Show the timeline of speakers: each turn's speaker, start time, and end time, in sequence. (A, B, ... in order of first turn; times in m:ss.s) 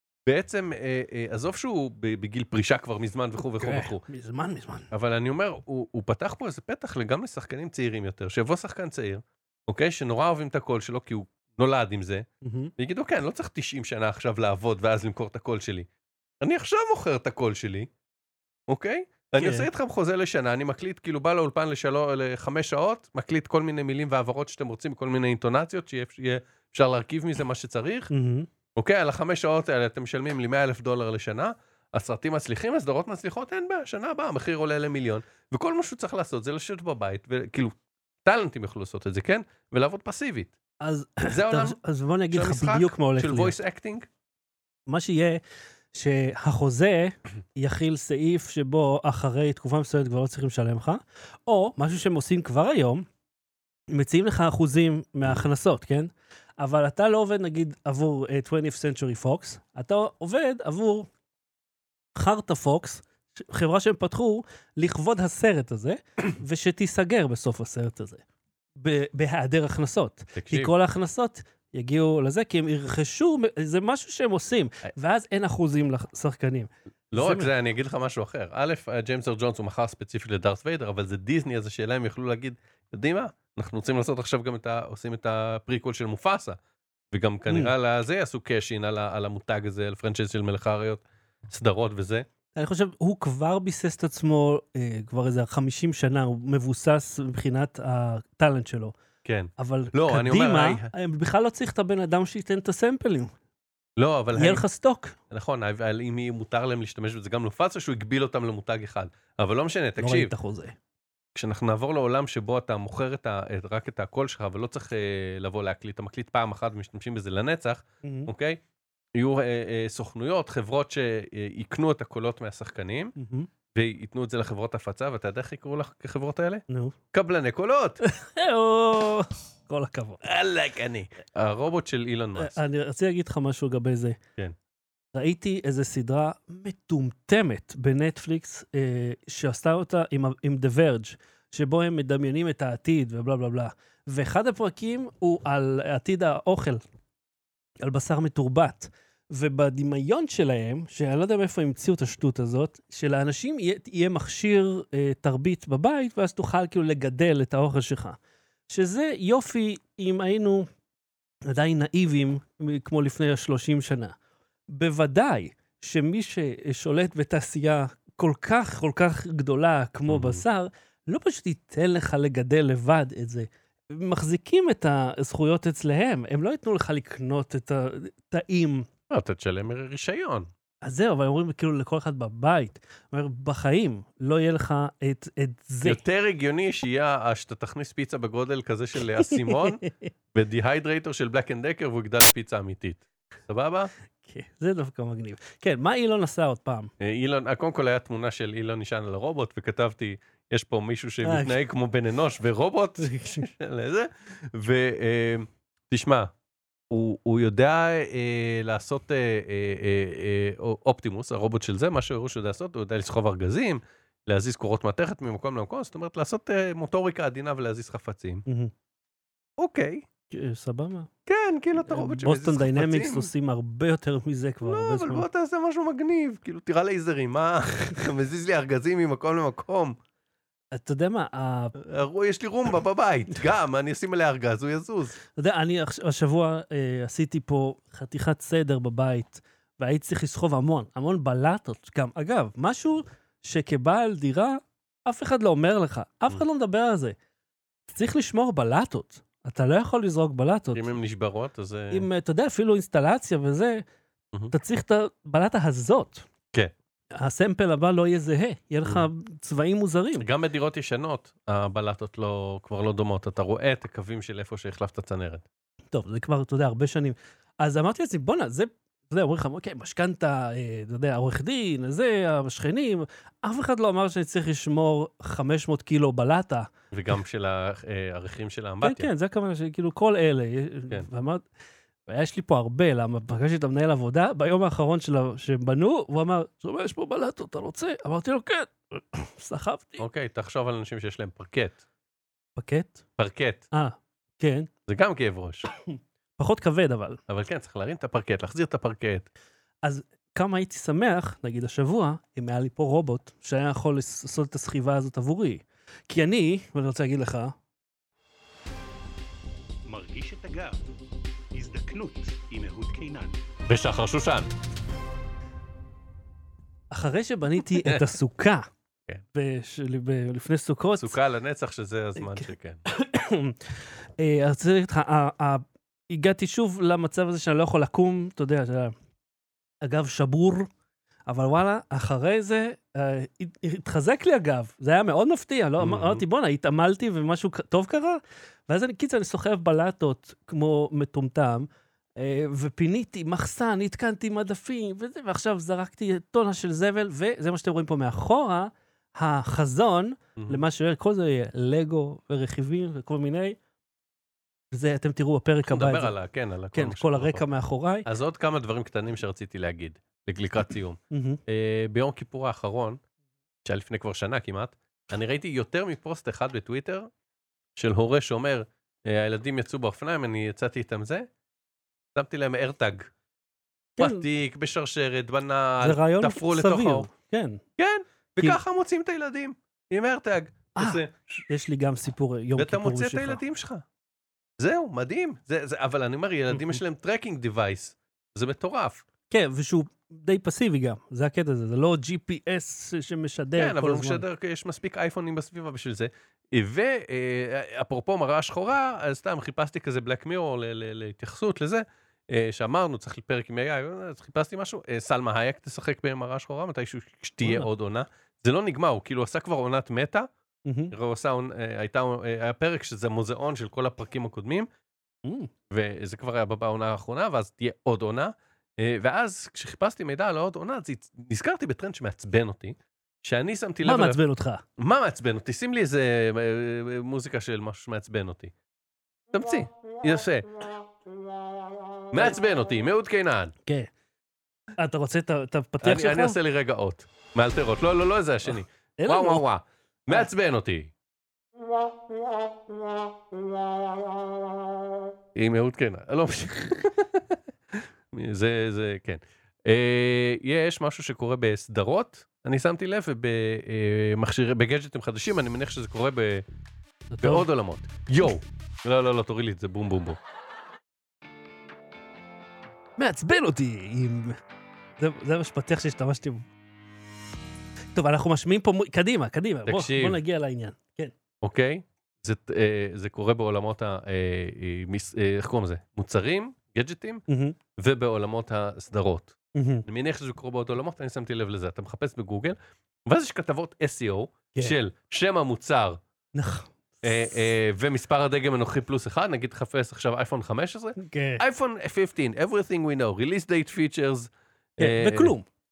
0:00.2-0:04.0 A
0:03.5-0:04.9 B
0:04.9-0:12.2 A
0:12.4-0:12.7 B
0:12.8-0:15.9 A
0:16.4-0:17.9 A
0:18.7-0:28.1 A
0:19.4-0:19.7 B
0:28.1-0:28.5 B
0:28.8-0:40.5 A
0:40.8-0:43.6 B
0:41.3-0:41.8 A
0:42.3-0:44.1 A
0:44.9-0:45.4 B
0:45.9-0:53.0 B
0:53.9-1:01.1 B
1:02.2-1:08.2 B
1:08.8-1:17.5 B
1:10.3-1:10.7 A
1:17.1-1:26.6 A
1:27.1-1:32.2 A
1:27.5-1:27.7 B
1:32.5-1:38.9 B
1:39.2-1:40.9 A
1:39.6-1:43.3 B
1:44.0-1:44.6 A
1:44.3-1:45.2 B
1:45.3-1:50.3 A
1:50.0-1:50.8 B
1:51.3-1:58.6 A
1:58.0-1:58.3 B
1:59.1-2:03.1 A
2:03.2-2:03.5 B
2:03.7-2:08.0 A
2:06.7-2:07.0 B
2:08.0-2:10.2 B
2:10.2-2:12.6 A
2:12.4-2:14.2 B
2:15.1-2:26.8 B
2:27.8-2:40.7 B
2:41.5-2:44.1 B
2:44.7-2:58.9 B
2:50.1-2:50.4 A
2:59.1-3:00.5 A
3:00.8-3:06.0 B
3:05.8-3:09.8 A
3:09.2-3:10.1 B
3:10.3-3:13.9 A
3:14.2-3:16.9 B
3:17.0-3:26.3 A
3:21.2-3:21.6 B
3:23.0-3:23.5 B
3:26.9-3:38.4 A
3:38.4-3:38.7 B
3:39.6-3:40.0 A
3:40.3-3:41.1 B
3:41.3-3:43.3 A
3:41.8-3:45.2 B
3:44.6-3:50.0 A
3:50.7-3:51.7 B
3:51.8-3:55.2 A
3:55.3-4:07.2 B
4:07.9-4:10.9 B
4:10.7-4:12.1 A
4:11.9-4:13.8 B
4:14.5-4:16.3 B
4:17.1-4:20.3 B
4:20.2-4:25.4 A
4:25.9-4:36.7 B
4:36.9-4:39.1 A
4:38.8-4:41.4 B
4:42.1-4:50.0 B
4:50.0-4:51.8 A
4:52.6-4:53.0 B
4:53.2-4:53.6 A
4:53.7-4:54.7 B
4:54.9-4:55.7 A
4:56.4-4:57.2 B
4:57.3-4:59.3 A
4:59.8-5:07.5 B
5:09.8-5:10.8 C
5:11.5-5:13.4 C
5:13.7-5:14.5 A
5:16.9-5:18.7 B
5:17.7-5:18.1 A
5:19.3-5:21.2 B
5:21.0-5:22.8 A
5:22.2-5:28.9 B
5:29.8-5:30.7 B
5:31.3-5:53.6 B
5:35.8-5:36.2 A
5:50.4-5:50.6 A
5:54.7-5:56.1 B
5:55.6-5:57.4 A
5:56.7-5:58.1 B
5:58.0-6:03.0 A
6:01.1-6:01.4 B
6:03.6-6:07.1 A
6:07.8-6:11.3 A
6:12.1-6:13.1 A
6:14.0-6:14.3 B
6:14.0-6:17.1 A
6:15.8-6:17.6 B
6:17.8-6:21.5 A
6:20.8-6:23.4 B
6:22.6-6:23.8 A
6:24.6-6:29.0 A
6:26.5-6:26.8 B
6:29.3-6:34.2 B
6:33.6-6:50.3 A
6:47.4-6:47.7 B
6:50.6-6:50.9 B
6:50.9-6:54.7 A
6:55.2-6:55.5 B
6:55.7-7:04.2 A
7:03.8-7:04.6 B
7:04.8-7:08.5 A
7:09.3-7:10.6 A
7:12.1-7:13.5 A
7:13.6-7:13.9 B
7:14.8-7:16.4 B
7:15.8-7:20.9 A
7:19.0-7:19.4 B
7:25.3-7:36.4 A
7:37.1-7:37.5 B
7:37.2-7:40.2 A
7:43.0-7:44.4 B
7:45.0-7:46.5 B
7:47.9-7:51.1 B
7:49.6-7:50.2 A
7:51.4-7:57.2 A
7:57.3-7:57.6 B
7:57.8-8:06.0 A
7:59.5-7:59.8 B
8:06.3-8:07.2 B
8:07.0-8:15.3 A
8:11.0-8:11.4 B
8:14.8-8:15.4 B